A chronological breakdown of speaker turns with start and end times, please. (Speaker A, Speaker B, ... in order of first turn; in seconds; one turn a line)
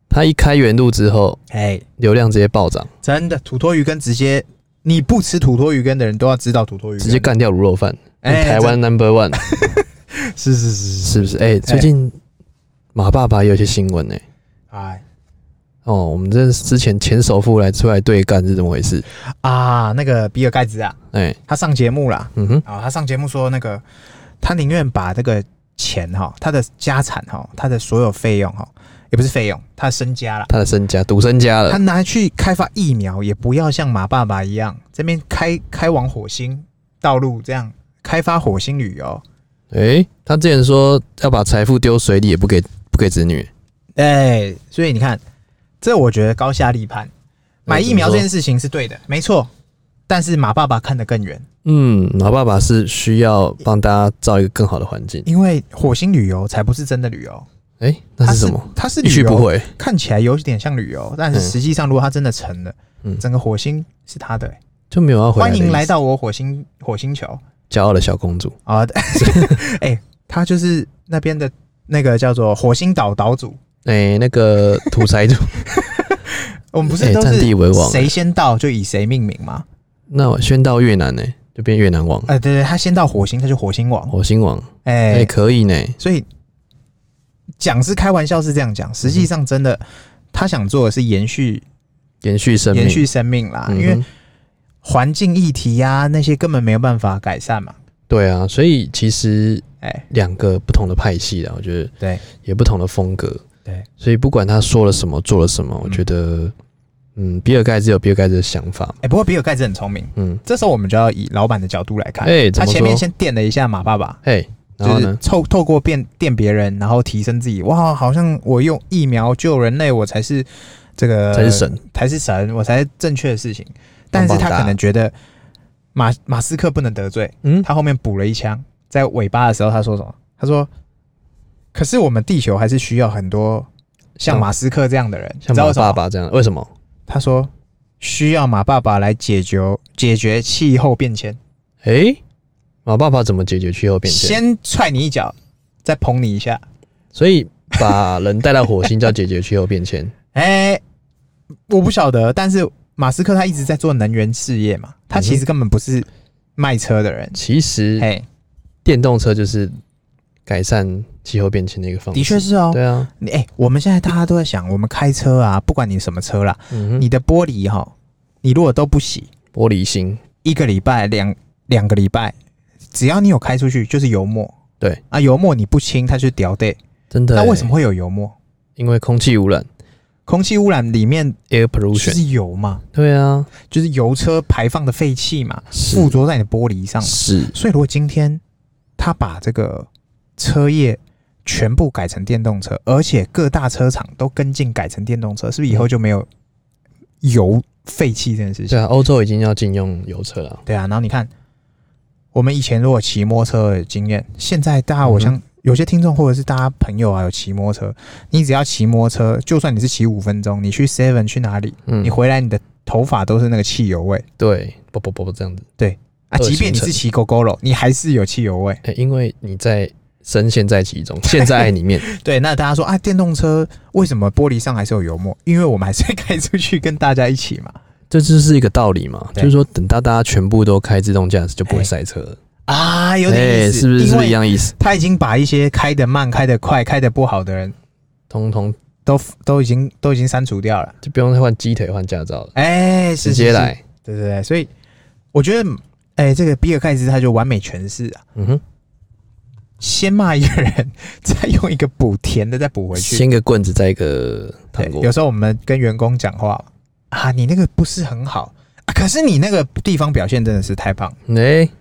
Speaker A: 0.1-1.4
Speaker B: 1.5-1.9
Speaker A: 2.0-2.9
Speaker B: 3.0-7.3
Speaker A: 7.0-9.4
Speaker B: 8.2-8.8
Speaker B: 9.3-11.9
Speaker A: 11.0-12.2
Speaker A: 12.9-14.2
Speaker B: 14.7-15.0
Speaker A: 15.8-19.1
Speaker B: 19.4-23.8
Speaker A: 21.1-21.4
Speaker A: 22.4-22.6
Speaker B: 24.4-30.5
Speaker A: 30.5-31.8
Speaker B: 31.7-39.2
Speaker A: 39.7-43.5
Speaker B: 44.0-45.2
Speaker B: 45.8-47.1
Speaker A: 47.7-48.3
Speaker B: 47.7-49.5
Speaker B: 50.1-51.5
Speaker A: 51.6-55.3
Speaker B: 55.3-57.5
Speaker A: 57.8-59.7
Speaker B: 58.2-64.6
Speaker A: 64.9-65.9
Speaker B: 65.4-67.4
Speaker A: 67.7-68.6
Speaker B: 68.7-73.6
Speaker A: 69.2-69.6
Speaker A: 73.8-75.8
Speaker B: 75.9-79.7
Speaker A: 76.9-78.1
Speaker A: 80.1-82.3
Speaker B: 82.3-84.1
Speaker A: 84.1-86.0
Speaker B: 84.8-85.3
Speaker B: 86.0-86.3
Speaker B: 87.6-91.6
Speaker A: 92.2-93.1
Speaker B: 92.7-94.0
Speaker A: 93.7-94.0
Speaker B: 94.8-97.8
Speaker A: 98.1-103.4
Speaker A: 104.0-106.5
Speaker A: 107.2-109.0
Speaker B: 109.0-114.2
Speaker A: 110.2-110.4
Speaker A: 112.2-113.0
Speaker A: 114.2-115.2
Speaker B: 114.8-125.1
Speaker A: 121.3-121.8
Speaker A: 124.1-124.8
Speaker B: 126.0-130.7
Speaker B: 131.7-133.7
Speaker B: 134.2-136.0
Speaker A: 135.4-136.7
Speaker B: 137.1-137.5
Speaker B: 138.0-141.4
Speaker A: 141.8-142.2
Speaker A: 142.9-144.4
Speaker B: 144.1-146.6
Speaker A: 147.1-150.1
Speaker B: 150.3-150.8
Speaker B: 151.7-157.4
Speaker A: 155.2-155.4
Speaker A: 157.3-158.1
Speaker B: 158.0-158.3
Speaker A: 158.8-159.7
Speaker A: 160.5-163.1
Speaker B: 162.1-169.3
Speaker A: 166.7-167.1
Speaker A: 169.5-170.2
Speaker B: 170.4-172.3
Speaker B: 172.9-174.6
Speaker B: 175.1-176.8
Speaker A: 177.1-177.7
Speaker B: 177.3-178.4
Speaker A: 178.8-179.7
Speaker B: 180.3-181.4
Speaker A: 181.5-182.2
Speaker B: 181.9-182.8
Speaker A: 182.9-183.5
Speaker B: 183.7-188.4
Speaker A: 185.7-186.1
Speaker A: 187.0-187.6
Speaker B: 189.0-196.3
Speaker B: 197.2-198.8
Speaker A: 198.7-200.6
Speaker B: 200.7-201.3
Speaker B: 202.3-214.2
Speaker A: 205.1-205.3
Speaker A: 211.9-212.2
Speaker A: 214.4-215.7
Speaker B: 215.8-218.8
Speaker A: 216.4-217.0
Speaker A: 218.8-222.1
Speaker B: 221.3-227.8
Speaker A: 228.1-232.4
Speaker B: 232.7-237.8
Speaker A: 233.3-234.7
Speaker A: 238.3-238.8
Speaker B: 239.1-241.0
Speaker A: 241.0-242.5
Speaker B: 242.6-244.7
Speaker A: 243.2-243.8
Speaker B: 245.3-248.2
Speaker A: 248.4-248.6
Speaker B: 249.8-253.2
Speaker A: 252.9-255.1
Speaker B: 254.8-261.2
Speaker A: 261.3-261.7